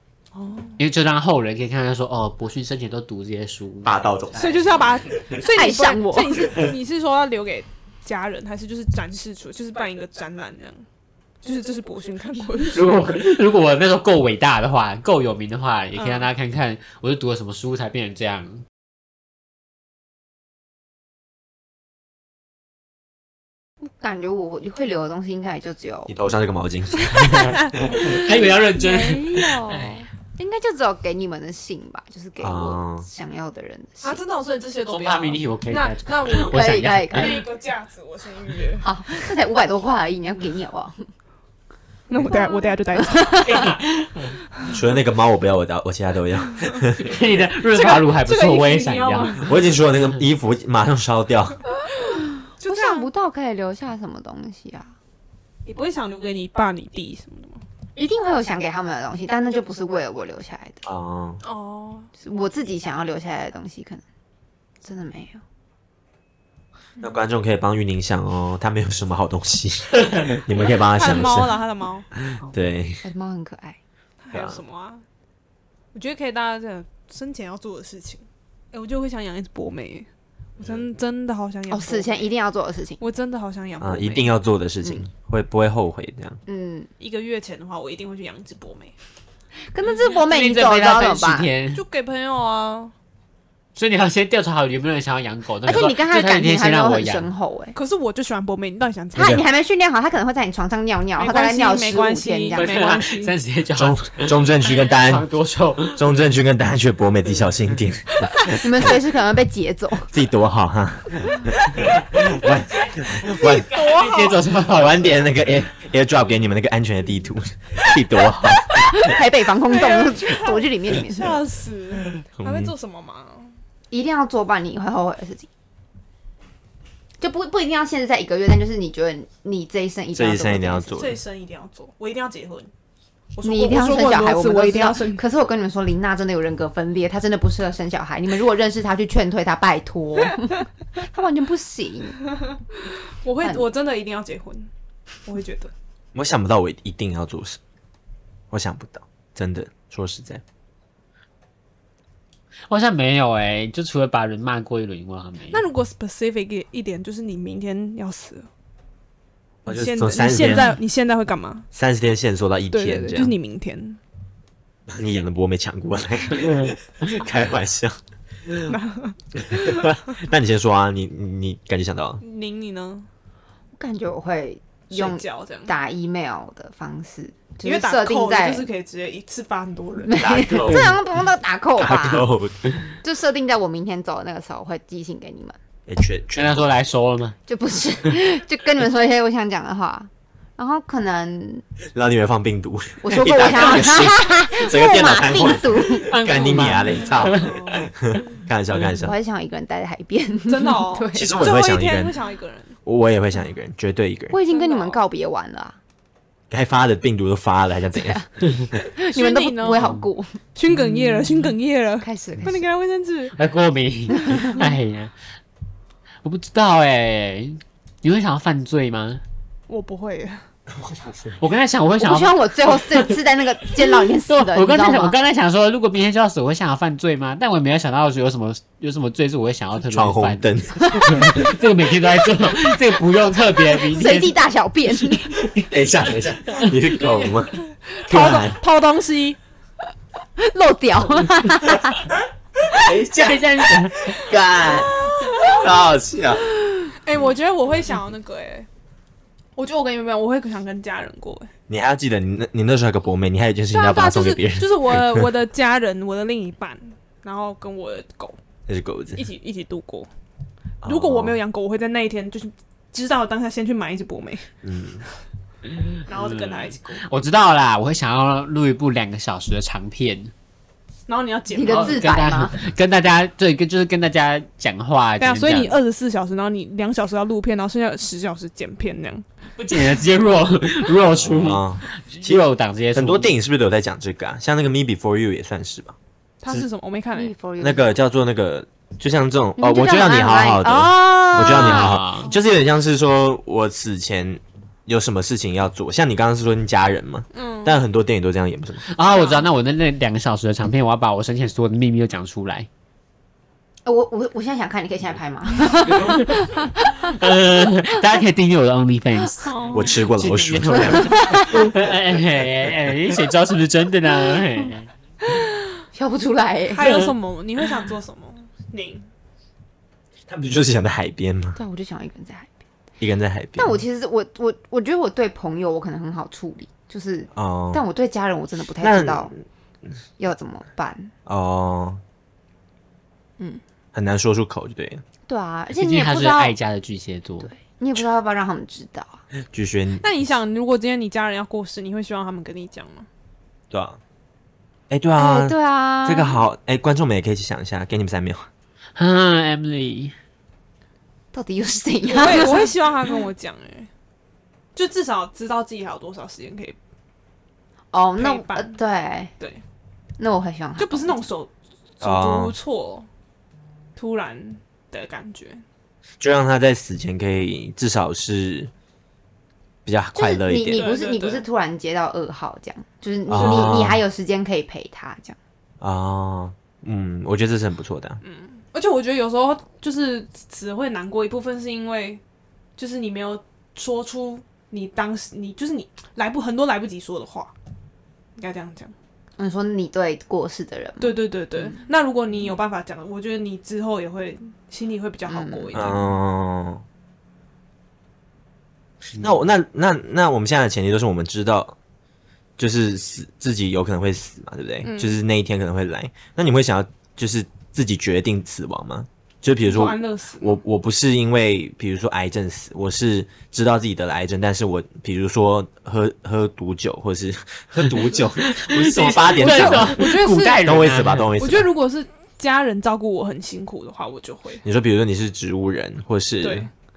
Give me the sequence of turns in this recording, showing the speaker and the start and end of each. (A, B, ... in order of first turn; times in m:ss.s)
0:00.3-0:00.8 A
0:00.8-0:04.0 B
0:03.8-0:04.9 C
0:04.3-0:10.8 A
0:05.5-0:06.5 D
0:11.4-0:12.9 A
0:12.7-0:18.6 B
0:15.9-0:16.3 A
0:23.8-0:26.1 D
0:26.1-0:28.1 C
0:27.2-0:29.8 A
0:27.2-0:30.0 B
0:28.8-0:34.2 D
0:32.4-0:33.1 C
0:34.0-0:38.9 A
0:34.9-0:37.4 B
0:36.5-0:37.4 D
0:38.8-0:41.0 D
0:42.1-0:43.7 A
0:42.3-0:43.5 D
0:43.5-0:44.3 B
0:44.7-0:47.0 C
0:47.0-0:49.4 B
0:47.7-0:49.6 A
0:49.4-0:51.6 C
0:52.6-0:53.1 A
0:52.6-0:54.9 D
0:55.6-0:57.6 A
0:58.0-1:00.8 D
1:00.8-1:01.4 C
1:01.4-1:02.1 A
1:02.2-1:04.0 D
1:04.8-1:05.4 D
1:07.0-1:11.6 C
1:10.6-1:12.1 A
1:12.4-1:13.0 C
1:13.0-1:13.8 D
1:14.2-1:15.0 A
1:14.3-1:14.6 C
1:15.9-1:20.1 A
1:20.6-1:22.3 A
1:21.7-1:23.0 D
1:23.0-1:24.3 A
1:23.8-1:26.4 C
1:26.5-1:26.9 D
1:27.0-1:29.0 A
1:29.7-1:31.5 D
1:30.1-1:31.8 B
1:31.7-1:32.9 A
1:33.8-1:37.2 B
1:35.6-1:37.8 D
1:37.7-1:39.4 A
1:39.1-1:42.9 D
1:39.2-1:39.4 C
1:41.2-1:43.3 A
1:42.5-1:46.1 B
1:43.7-1:45.3 C
1:46.0-1:48.9 C
1:48.5-1:50.1 D
1:50.1-1:53.7 C
1:53.4-1:54.4 A
1:53.4-1:55.2 B
1:54.7-1:59.1 C
1:58.8-2:01.4 D
1:59.7-2:03.5 A
2:02.4-2:02.7 C
2:03.9-2:05.5 D
2:07.2-2:11.1 D
2:10.1-2:11.2 C
2:11.0-2:12.7 A
2:13.3-2:15.2 A
2:13.4-2:22.2 D
2:23.2-2:24.7 A
2:23.4-2:23.7 D
2:25.2-2:25.7 A
2:26.1-2:27.6 C
2:28.5-2:30.4 C
2:32.7-2:35.6 B
2:35.5-2:38.5 A
2:39.6-2:40.8 C
2:39.6-2:41.7 A
2:41.7-2:43.4 C
2:42.7-2:44.0 A
2:44.9-2:48.7 C
2:48.7-2:49.8 A
2:49.4-2:52.2 C
2:52.2-2:53.1 A
2:53.8-2:58.7 D
2:54.9-2:55.7 A
2:57.6-3:00.2 A
3:00.0-3:02.2 D
3:00.1-3:01.0 C
3:01.8-3:02.8 C
3:03.0-3:05.6 D
3:05.9-3:06.7 C
3:06.3-3:07.4 B
3:07.5-3:11.6 D
3:11.9-3:19.1 C
3:13.0-3:16.1 D
3:16.1-3:17.7 B
3:17.3-3:17.9 A
3:19.0-3:21.3 D
3:20.5-3:22.8 A
3:21.1-3:22.1 C
3:22.8-3:24.3 C
3:24.3-3:25.8 D
3:24.5-3:25.0 A
3:26.5-3:28.2 C
3:28.0-3:28.3 D
3:28.9-3:30.4 D
3:29.1-3:29.9 A
3:30.5-3:33.3 A
3:32.0-3:32.6 D
3:33.4-3:35.1 B
3:34.2-3:34.6 A
3:36.2-3:39.2 B
3:39.7-3:40.4 A
3:41.4-3:43.2 B
3:42.0-3:45.1 D
3:43.9-3:54.3 B
3:49.8-3:50.8 C
3:50.8-3:51.2 D
3:53.9-3:55.3 D
3:55.5-3:58.6 C
3:56.6-3:57.2 B
3:57.9-3:59.4 A
4:00.4-4:02.0 D
4:02.7-4:06.4 C
4:03.1-4:04.2 B
4:04.7-4:05.7 A
4:06.9-4:08.7 A
4:09.6-4:11.5 A
4:11.7-4:15.3 C
4:13.7-4:18.4 A
4:18.7-4:19.2 C
4:19.1-4:20.1 A
4:20.8-4:21.4 C
4:20.8-4:24.5 A
4:24.6-4:25.0 C
4:25.8-4:30.3 B
4:26.1-4:27.0 A
4:31.1-4:32.0 A
4:31.5-4:32.6 D
4:31.7-4:35.8 B
4:35.2-4:39.2 A
4:39.6-4:43.3 B
4:41.2-4:46.0 C
4:46.4-4:47.3 A
4:47.2-4:47.9 D
4:47.6-4:58.9 C
4:49.6-4:52.0 D
4:51.3-4:52.3 B
4:57.3-4:57.8 A
4:58.9-5:02.7 B
5:03.8-5:07.1 D
5:07.0-5:14.9 B
5:09.4-5:10.0 A
5:09.7-5:11.7 C
5:11.0-5:11.5 D
5:15.9-5:16.9 D
5:16.7-5:19.1 A
5:20.3-5:21.6 C
5:21.6-5:22.5 D
5:23.0-5:23.8 C
5:23.6-5:29.3 D
5:27.3-5:27.8 C
5:28.8-5:29.4 C
5:30.2-5:31.1 D
5:31.2-5:32.0 C
5:33.9-5:35.0 C
5:35.3-5:36.5 D
5:35.7-5:37.5 B
5:37.4-5:39.2 D
5:39.5-5:40.1 C
5:40.0-5:43.1 A
5:43.7-5:44.0 C
5:44.9-5:48.5 C
5:45.2-5:46.4 D
5:49.0-5:50.1 B
5:51.3-5:52.7 D
5:52.1-5:53.9 A
5:54.7-5:56.8 A
5:57.9-5:59.3 D
5:58.2-5:58.8 A
6:00.2-6:01.2 D
6:00.8-6:03.1 A
6:02.0-6:02.6 C
6:04.0-6:05.6 A
6:06.2-6:08.7 C
6:09.8-6:10.9 C
6:10.1-6:15.4 D
6:10.7-6:11.4 A
6:13.3-6:14.0 C
6:15.8-6:18.2 C
6:18.2-6:22.2 A
6:22.8-6:27.5 A
6:28.4-6:28.9 A
6:29.4-6:31.6 D
6:31.0-6:36.1 A
6:35.3-6:35.9 D
6:35.7-6:36.8 C
6:39.2-6:41.8 C
6:42.6-7:01.7 C
6:44.8-6:45.2 A
6:49.6-6:50.6 A
6:58.5-7:01.3 B
6:59.4-7:00.7 A
7:01.4-7:04.6 A
7:04.6-7:06.7 C
7:06.4-7:06.7 A